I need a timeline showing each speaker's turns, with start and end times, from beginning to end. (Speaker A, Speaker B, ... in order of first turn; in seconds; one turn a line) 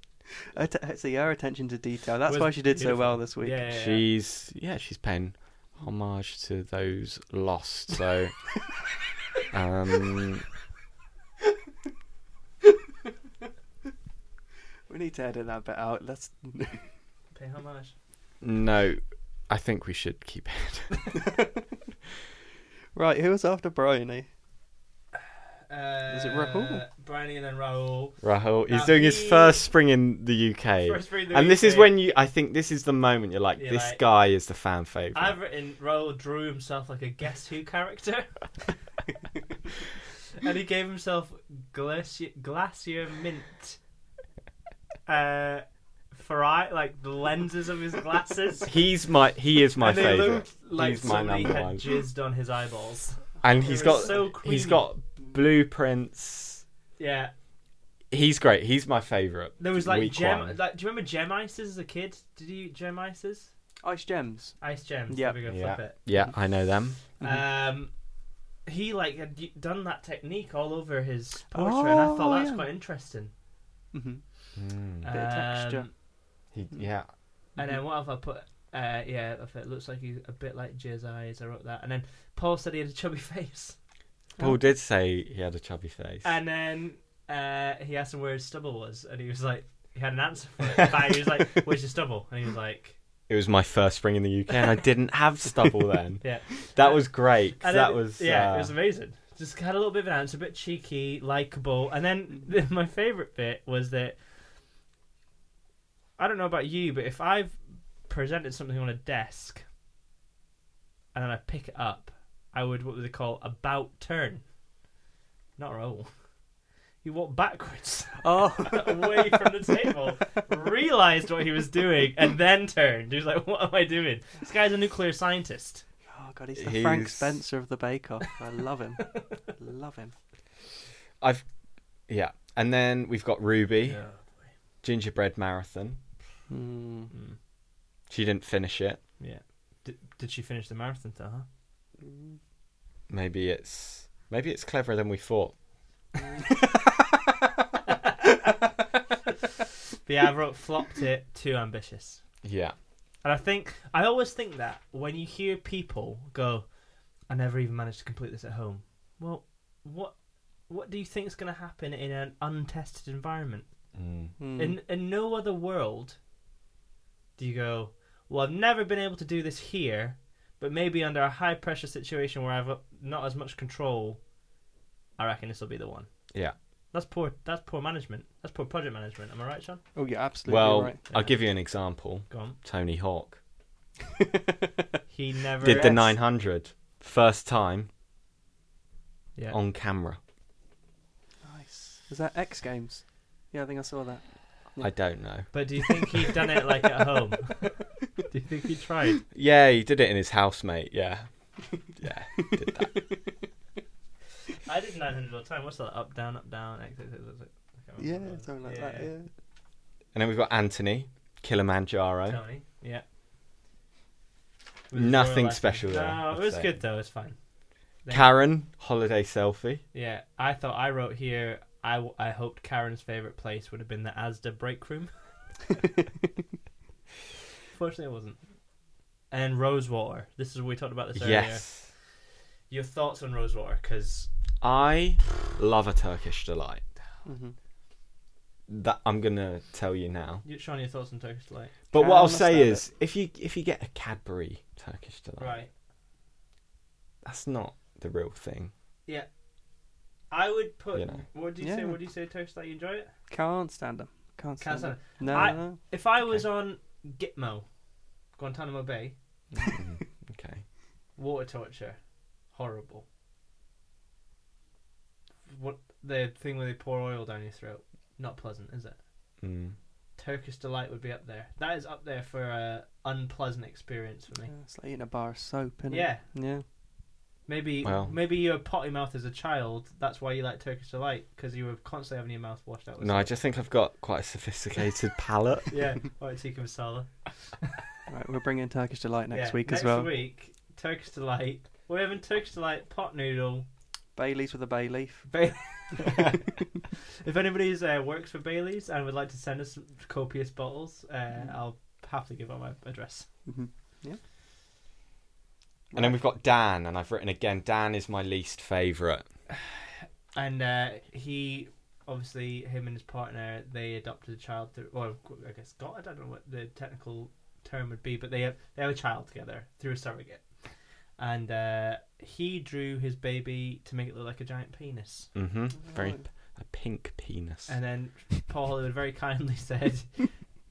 Speaker A: 0.5-3.6
Speaker B: 2.2-4.1
Speaker C: 3.7-8.4
Speaker C: 9.5-10.4
Speaker A: 14.9-16.9
Speaker B: 17.3-17.9
Speaker C: 18.4-21.1
Speaker A: 21.1-21.5
Speaker A: 22.9-24.3
Speaker B: 25.7-29.6
Speaker A: 26.1-26.8
Speaker C: 28.2-35.4
Speaker B: 30.8-31.9
Speaker B: 33.6-34.0
Speaker B: 35.1-38.3
Speaker B: 40.4-43.8
Speaker B: 45.1-48.7
Speaker C: 48.7-51.8
Speaker B: 49.8-54.8
Speaker C: 53.4-56.6
Speaker A: 53.7-54.0
Speaker B: 57.0-57.3
Speaker C: 58.1-60.6
Speaker B: 59.6-63.5
Speaker A: 63.8-65.4
Speaker B: 64.6-66.0
Speaker C: 65.5-67.0
Speaker A: 67.2-67.4
Speaker B: 67.2-67.9
Speaker B: 68.7-73.3
Speaker A: 71.5-72.7
Speaker A: 73.9-74.2
Speaker C: 74.5-75.0
Speaker A: 75.0-75.9
Speaker B: 75.0-75.9
Speaker C: 76.5-77.1
Speaker B: 77.6-83.8
Speaker C: 84.4-86.3
Speaker B: 86.2-93.0
Speaker C: 93.3-98.7
Speaker B: 96.2-104.2
Speaker B: 106.2-109.6
Speaker B: 111.1-114.4
Speaker B: 115.6-116.1
Speaker B: 117.0-125.8
Speaker A: 118.2-119.4
Speaker A: 126.1-130.1
Speaker C: 126.5-127.4
Speaker B: 129.1-129.3
Speaker C: 132.1-134.0
Speaker B: 133.8-134.5
Speaker C: 134.8-136.0
Speaker A: 136.5-137.1
Speaker B: 137.1-137.4
Speaker C: 138.1-139.0
Speaker B: 139.2-141.4
Speaker A: 142.0-142.3
Speaker C: 143.1-145.5
Speaker B: 147.9-148.3
Speaker B: 150.0-152.2
Speaker C: 152.4-152.7
Speaker B: 153.2-156.7
Speaker B: 157.3-160.1
Speaker B: 160.7-163.7
Speaker C: 163.9-164.3
Speaker A: 164.4-164.8
Speaker B: 164.6-166.2
Speaker B: 167.4-174.2
Speaker B: 175.2-176.1
Speaker B: 176.9-179.8
Speaker A: 179.9-181.0
Speaker C: 180.4-183.4
Speaker B: 181.1-181.3
Speaker B: 182.3-182.6
Speaker B: 185.1-186.2
Speaker C: 185.6-187.9
Speaker A: 185.6-186.0
Speaker C: 189.5-190.2
Speaker A: 191.4-195.5
Speaker C: 194.8-195.5
Speaker B: 195.5-199.2
Speaker C: 199.3-203.0
Speaker A: 202.5-203.0
Speaker B: 204.6-209.1
Speaker A: 208.0-209.3
Speaker C: 210.1-212.4
Speaker B: 212.2-213.0
Speaker B: 214.9-217.3
Speaker C: 214.9-216.8
Speaker C: 218.1-219.8
Speaker B: 219.9-225.1
Speaker B: 227.7-228.4
Speaker B: 229.3-231.8
Speaker C: 231.2-231.9
Speaker B: 232.7-234.3
Speaker C: 234.6-236.8
Speaker A: 237.2-237.5
Speaker C: 238.7-240.4
Speaker B: 240.4-241.9
Speaker C: 241.9-245.6
Speaker A: 241.9-242.8
Speaker B: 245.4-245.7
Speaker C: 247.2-248.7
Speaker B: 250.3-253.1
Speaker C: 250.9-251.2
Speaker A: 251.6-252.0
Speaker A: 253.3-255.8
Speaker B: 254.6-257.6
Speaker B: 258.4-259.1
Speaker C: 259.6-260.6
Speaker B: 261.2-262.0
Speaker B: 262.5-263.0
Speaker B: 265.5-269.0
Speaker C: 269.4-269.8
Speaker B: 270.2-274.5
Speaker A: 274.4-276.6
Speaker B: 275.9-276.2
Speaker B: 277.5-283.4
Speaker C: 277.8-278.1
Speaker C: 283.0-285.7
Speaker B: 285.7-287.1
Speaker A: 288.1-290.1
Speaker B: 289.3-293.6
Speaker A: 294.1-295.4
Speaker B: 295.3-296.4
Speaker B: 297.2-303.3
Speaker A: 303.5-304.2
Speaker A: 305.9-306.2
Speaker C: 305.9-309.2
Speaker B: 309.7-320.6
Speaker B: 321.2-325.3
Speaker C: 325.3-327.7
Speaker A: 325.8-326.2
Speaker B: 327.7-330.5